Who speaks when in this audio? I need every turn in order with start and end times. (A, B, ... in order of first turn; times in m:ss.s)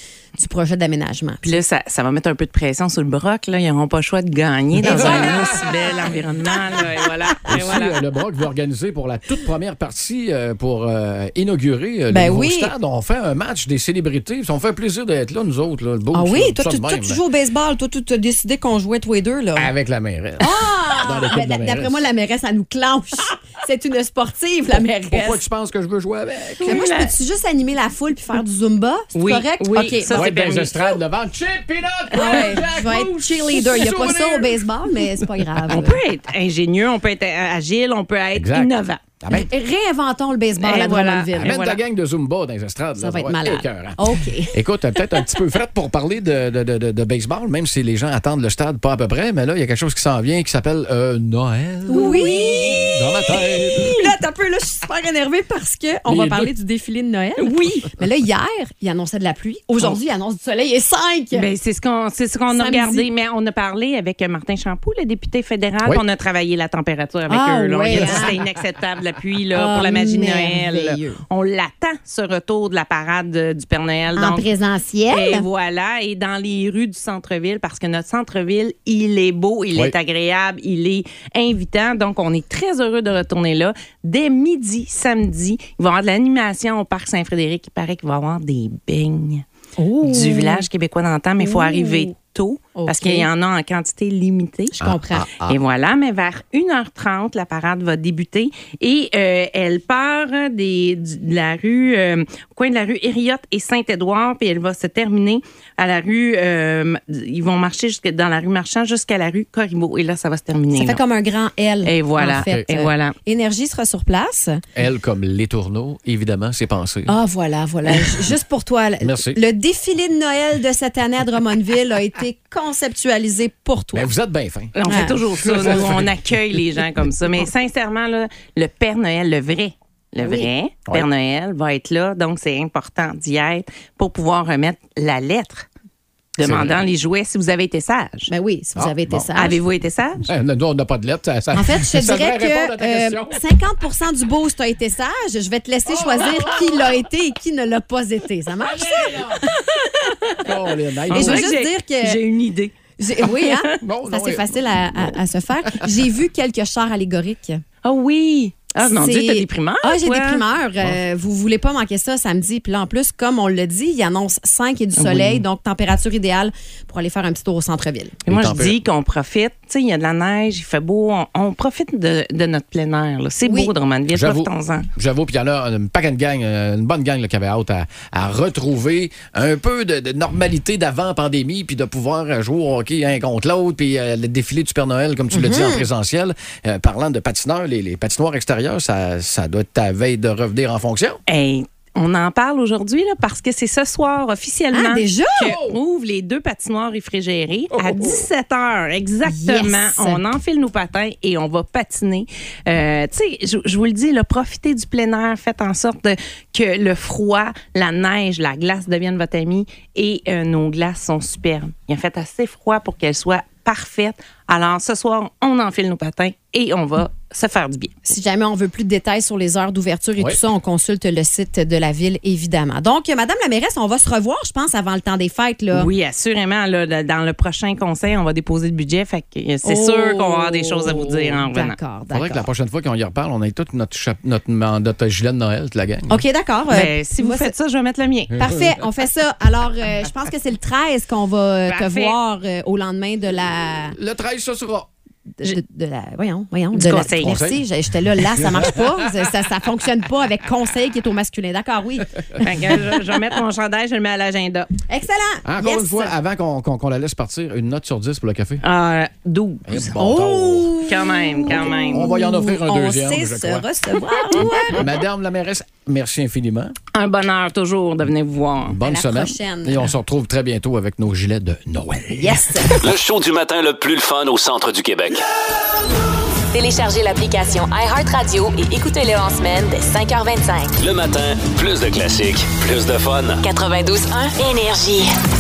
0:00.4-0:01.6 A
0:01.4-0:08.0 B
0:04.8-0:05.4 A
0:04.8-0:05.7 C
0:07.5-0:17.2 C
0:12.1-0:12.7 A
0:16.1-0:19.7 A
0:19.6-0:22.0 C
0:20.4-0:25.4 A
0:25.1-0:26.8 C
0:26.6-0:27.1 B
0:26.7-0:30.3 A
0:29.2-0:30.9 B
0:30.1-0:35.8 C
0:32.1-0:36.0 A
0:35.7-0:39.0 B
0:38.4-0:39.5 C
0:39.3-0:41.5 A
0:40.6-0:41.8 B
0:41.4-0:54.0 C
0:43.0-0:44.6 A
0:51.9-0:52.8 A
0:51.9-0:52.9 B
0:53.9-1:01.4 A
0:56.1-0:56.5 C
0:57.4-0:57.8 B
1:01.3-1:14.5 B
1:02.5-1:03.1 A
1:07.3-1:08.4 A
1:08.0-1:08.3 C
1:09.6-1:11.2 A
1:14.2-1:15.5 A
1:15.1-1:29.4 B
1:29.8-1:30.6 A
1:30.0-1:34.8 B
1:31.4-1:32.1 A
1:32.8-1:33.3 A
1:34.8-1:35.3 A
1:34.8-1:35.6 C
1:35.4-1:51.0 B
1:50.7-1:54.6 A
1:51.8-1:53.2 B
1:52.3-1:52.7 C
1:54.8-1:57.1 C
1:57.1-2:04.1 A
1:59.0-1:59.4 C
2:03.9-2:04.8 C
2:04.8-2:15.7 B
2:04.9-2:05.2 A
2:05.3-2:06.2 C
2:10.2-2:10.5 A
2:16.4-2:18.3 B
2:16.4-2:16.8 C
2:18.3-2:19.6 A
2:18.8-2:19.3 C
2:19.4-2:20.3 B
2:20.3-2:23.4 C
2:21.5-2:30.5 A
2:25.9-2:27.0 C
2:28.6-2:29.4 C
2:30.4-2:31.5 C
2:31.1-2:33.8 B
2:31.1-2:32.2 A
2:33.0-2:37.6 A
2:33.8-2:35.2 C
2:37.8-2:40.4 B
2:38.8-2:48.2 A
2:45.0-2:45.4 B
2:48.3-2:48.8 C
2:48.3-2:54.9 B
2:53.4-2:53.7 A
2:54.1-3:11.2 C
3:05.3-3:05.8 A
3:11.3-3:38.0 B
3:14.7-3:15.5 A
3:15.4-3:15.8 C
3:17.7-3:18.2 C
3:19.3-3:20.2 A
3:38.1-3:45.9 A
3:40.2-3:40.4 C
3:45.7-3:51.8 B
3:49.6-3:52.5 A
3:52.1-3:56.2 C
3:56.1-3:57.5 A
3:56.7-3:58.3 B
3:58.4-4:04.0 A
4:01.7-4:02.2 B
4:04.0-4:04.9 C
4:05.4-4:12.5 A
4:06.7-4:07.4 B
4:07.2-4:07.6 C
4:08.4-4:09.1 C
4:12.4-4:14.7 B
4:14.9-4:16.1 A
4:15.4-4:18.6 C
4:18.6-4:20.0 B
4:19.7-4:20.8 C
4:20.0-4:24.8 A
4:20.9-4:22.1 B
4:21.5-4:23.7 C
4:24.7-4:26.8 C
4:26.9-4:28.8 B
4:28.6-4:32.7 C
4:28.8-4:29.9 A
4:32.2-4:32.7 A
4:32.8-4:35.3 D
4:36.5-4:40.7 E
4:40.8-4:43.4 D
4:43.4-4:45.1 E